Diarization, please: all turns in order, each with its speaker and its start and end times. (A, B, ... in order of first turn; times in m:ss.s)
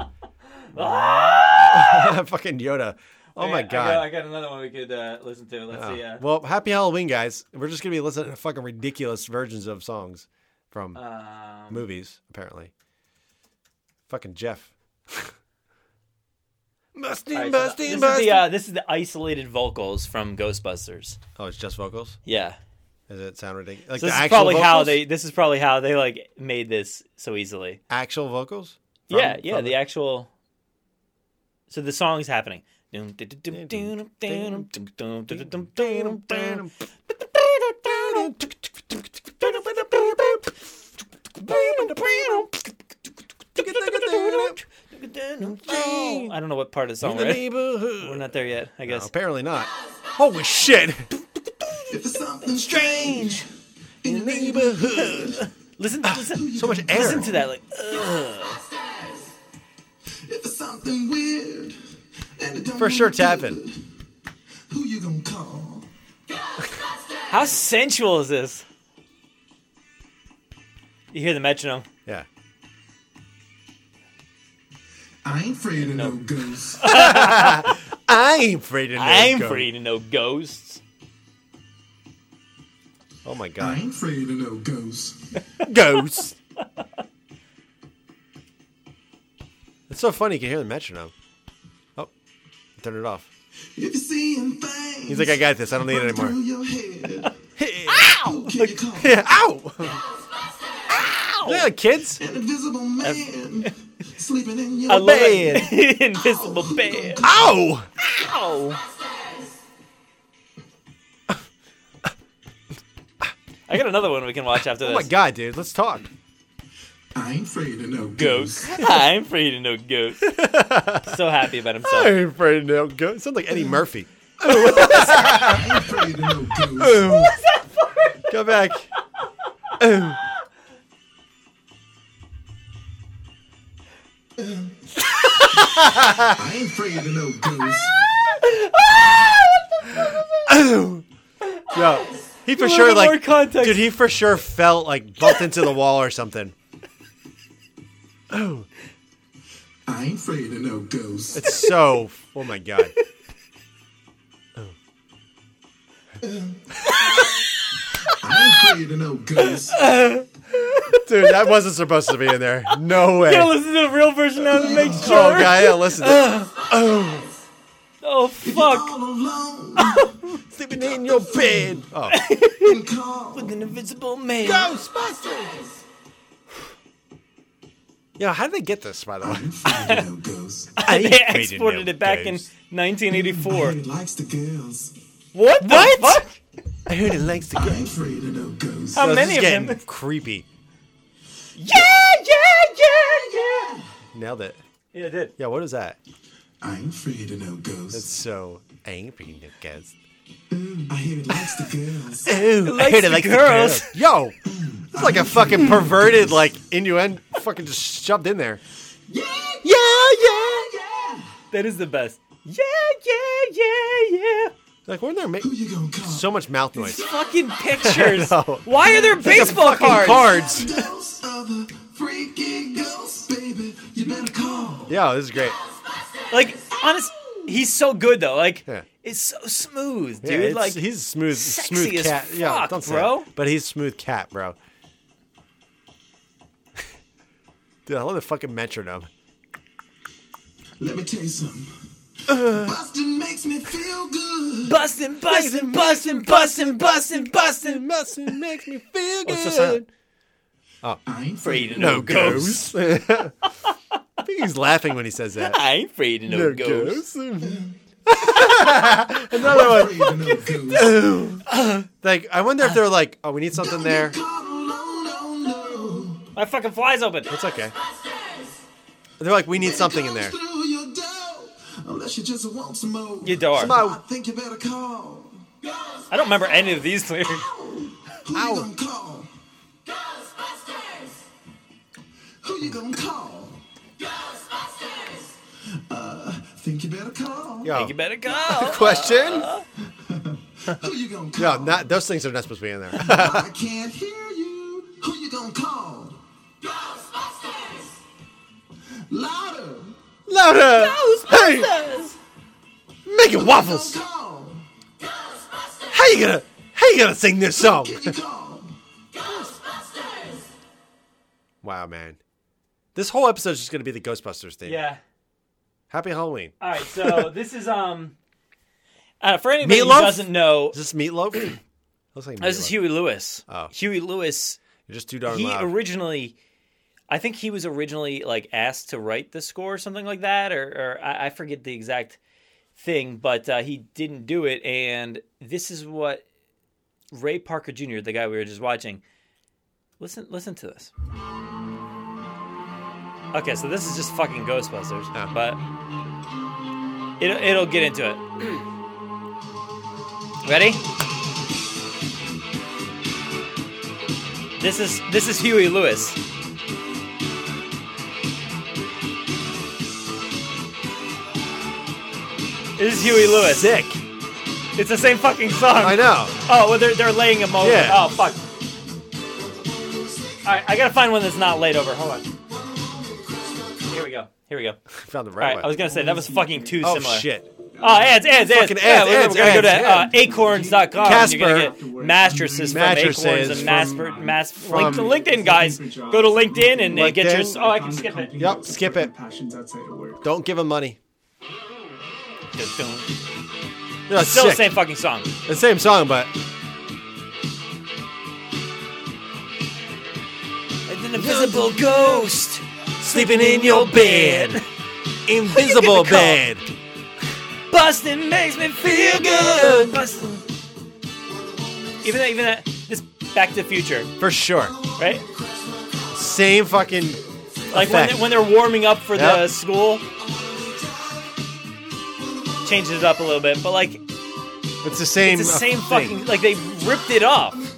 0:00.6-0:02.2 A
0:01.7-0:04.1 B
0:03.4-0:06.2 A
0:05.7-0:11.0 B
0:10.9-0:11.9 A
0:11.7-0:12.7 B
0:14.1-0:15.3 B
0:16.9-0:18.5 B
0:17.3-0:21.2 A
0:21.4-0:22.2 B
0:22.2-0:22.6 A
0:23.1-0:25.0 B
0:23.9-0:27.8 A
0:27.9-0:29.8 B
0:29.1-0:30.3 A
0:31.7-0:36.6 A
0:33.5-0:34.7 B
0:35.3-0:36.7 B
0:37.3-0:40.5 B
0:37.9-0:38.3 A
0:39.9-0:40.4 A
0:41.4-0:42.6 B
0:41.4-0:42.7 A
0:43.5-0:49.1 A
0:43.6-0:44.6 B
0:45.4-0:46.4 B
0:47.0-0:48.3 B
0:48.8-0:51.1 B
0:51.9-0:53.5 C
0:52.4-0:53.5 A
0:54.0-0:55.4 C
0:54.0-0:55.4 B
0:55.1-0:58.6 A
0:56.1-0:57.3 B
0:56.2-0:57.4 C
1:00.2-1:01.8 C
1:02.3-1:03.8 C
1:02.8-1:03.6 B
1:04.7-1:05.9 C
1:07.3-1:08.6 A
1:11.1-1:11.8 A
1:15.2-1:16.9 C
1:15.8-1:16.2 A
1:16.8-1:17.8 A
1:16.8-1:19.7 B
1:18.9-1:20.8 A
1:23.2-1:23.8 B
1:23.6-1:25.4 C
1:25.6-1:26.3 B
1:29.9-1:31.1 B
1:32.8-1:33.3 B
1:33.8-1:37.3 C
1:35.1-1:36.4 B
1:37.6-1:38.2 B
1:37.9-1:38.8 A
1:38.1-1:39.2 C
1:38.9-1:40.0 B
1:40.9-1:41.7 A
1:41.4-1:42.2 B
1:42.2-1:47.5 C
1:43.0-1:43.7 A
1:44.9-1:47.3 A
1:45.0-1:45.7 B
1:47.2-1:47.9 B
1:48.0-1:48.8 A
1:53.7-1:55.1 A
1:54.8-1:56.1 B
1:57.1-1:58.7 C
1:58.2-2:00.2 A
2:00.2-2:01.2 B
2:01.0-2:02.2 A
2:01.8-2:05.9 B
2:04.4-2:05.5 A
2:04.5-2:07.0 C
2:06.7-2:07.4 B
2:07.0-2:08.6 A
2:08.3-2:08.9 B
2:09.8-2:10.2 B
2:15.4-2:16.4 B
2:15.4-2:16.0 A
2:16.3-2:18.0 C
2:17.9-2:20.6 A
2:20.4-2:21.0 B
2:21.4-2:23.9 A
2:21.7-2:26.5 B
2:28.3-2:28.7 B
2:29.9-2:31.5 C
2:31.3-2:32.9 B
2:31.4-2:31.7 A
2:36.2-2:36.6 C
2:36.8-2:37.4 A
2:37.9-2:38.6 A
2:38.2-2:39.8 C
2:39.5-2:41.4 A
2:41.0-2:43.6 B
2:43.1-2:46.5 A
2:44.4-2:45.4 C
2:44.6-2:47.3 B
2:48.0-2:48.9 A
2:48.4-2:50.2 C
2:49.8-2:50.4 A
2:50.5-2:52.2 B
2:51.0-2:51.7 C
2:52.1-2:52.8 A
2:52.5-2:53.5 C
2:53.3-2:54.7 A
2:54.4-2:55.6 B
2:58.2-2:59.5 B
2:59.2-3:00.8 C
2:59.6-3:00.0 A
3:00.8-3:03.8 A
3:00.8-3:02.5 B
3:03.1-3:04.9 C
3:05.3-3:06.4 A
3:05.6-3:06.3 B
3:06.8-3:07.9 B
3:07.5-3:09.0 C
3:08.9-3:09.8 A
3:09.0-3:10.4 B
3:11.6-3:13.8 A
3:14.1-3:14.6 B
3:14.9-3:15.3 A
3:15.4-3:16.0 B
3:16.6-3:18.1 C
3:17.9-3:19.9 B
3:20.5-3:22.3 C
3:21.4-3:21.7 B
3:22.2-3:24.4 B
3:22.6-3:24.0 A
3:24.5-3:26.2 C
3:24.9-3:28.6 B
3:29.1-3:31.3 C
3:29.6-3:30.8 B
3:31.5-3:34.5 A
3:34.8-3:35.5 B
3:35.4-3:36.3 C
3:36.0-3:37.1 B
3:36.9-3:40.4 A
3:37.7-3:40.8 B
3:39.3-3:44.9 C
3:44.9-3:45.6 B
3:46.3-3:53.3 A
3:50.2-3:54.6 B
3:57.8-3:59.1 B
4:00.8-4:01.7 C
4:02.3-4:02.8 B
4:02.3-4:04.8 C
4:04.6-4:08.5 A
4:05.2-4:09.9 B
4:09.2-4:09.8 A
4:11.0-4:12.3 C
4:11.4-4:13.0 A
4:11.7-4:13.3 B
4:14.2-4:15.6 B
4:15.4-4:17.0 A
4:16.3-4:24.2 B
4:17.4-4:17.7 C
4:18.5-4:19.1 A
4:19.3-4:21.0 C
4:21.5-4:21.8 A
4:23.5-4:26.2 C
4:26.3-4:27.3 A
4:27.3-4:27.7 B
4:29.2-4:30.4 B
4:29.5-4:35.4 C
4:33.2-4:33.8 A
4:33.5-4:34.0 B
4:36.1-4:37.4 A
4:37.3-4:39.3 C
4:38.3-4:38.7 B
4:42.4-4:43.6 C
4:45.7-4:47.8 C
4:47.6-4:49.5 B
4:47.7-4:49.6 A
4:50.0-4:51.8 C
4:51.4-4:53.5 B
4:52.9-4:56.2 C
4:59.0-5:00.0 C
5:00.3-5:01.8 B
5:00.6-5:02.2 A
5:03.0-5:04.0 B
5:03.3-5:04.7 C
5:05.9-5:08.2 B
5:07.6-5:08.8 C
5:11.6-5:12.2 B
5:12.9-5:14.8 B
5:14.6-5:15.0 A
5:15.9-5:17.3 B
5:16.6-5:18.2 A
5:19.2-5:20.8 A
5:19.6-5:21.6 B
5:22.1-5:22.8 B
5:22.4-5:24.6 A
5:24.8-5:25.7 B
5:25.2-5:26.4 A
5:27.1-5:32.2 A
5:32.8-5:36.2 A
5:37.1-5:39.0 A
5:40.0-5:40.9 A
5:43.3-5:45.6 A
5:47.2-5:48.6 A
5:50.4-5:50.8 A
5:54.6-5:56.2 A
6:02.8-6:03.7 A
6:03.4-6:04.0 B
6:04.8-6:08.4 A
6:05.8-6:06.4 B
6:07.6-6:08.0 B
6:10.4-6:12.3 A
6:13.8-6:14.8 A
6:14.9-6:15.7 B
6:15.4-6:28.4 A
6:15.8-6:16.6 C
6:16.8-6:17.5 B
6:17.8-6:18.1 C
6:18.3-6:20.2 B
6:19.8-6:26.9 C
6:21.0-6:21.8 B
6:22.6-6:25.1 B
6:26.9-6:27.7 B
6:27.5-6:30.2 C
6:28.4-6:29.1 B
6:30.2-6:31.0 B
6:32.5-6:33.1 A
6:34.1-6:34.7 B
6:34.2-6:35.3 A
6:35.4-6:36.3 B
6:40.9-6:44.6 A
6:41.1-6:42.3 B
6:43.0-6:44.6 B
6:45.2-6:46.6 B
6:45.5-6:46.4 A
6:47.7-6:50.4 A
6:48.8-6:50.0 B
6:52.0-6:54.1 A
6:54.2-6:54.8 B
6:55.0-6:55.2 A
6:56.1-6:58.3 B
6:57.7-7:00.0 A
6:59.1-6:59.4 B
7:00.4-7:01.2 C
7:02.6-7:04.0 A
7:04.8-7:06.2 B
7:05.2-7:07.6 A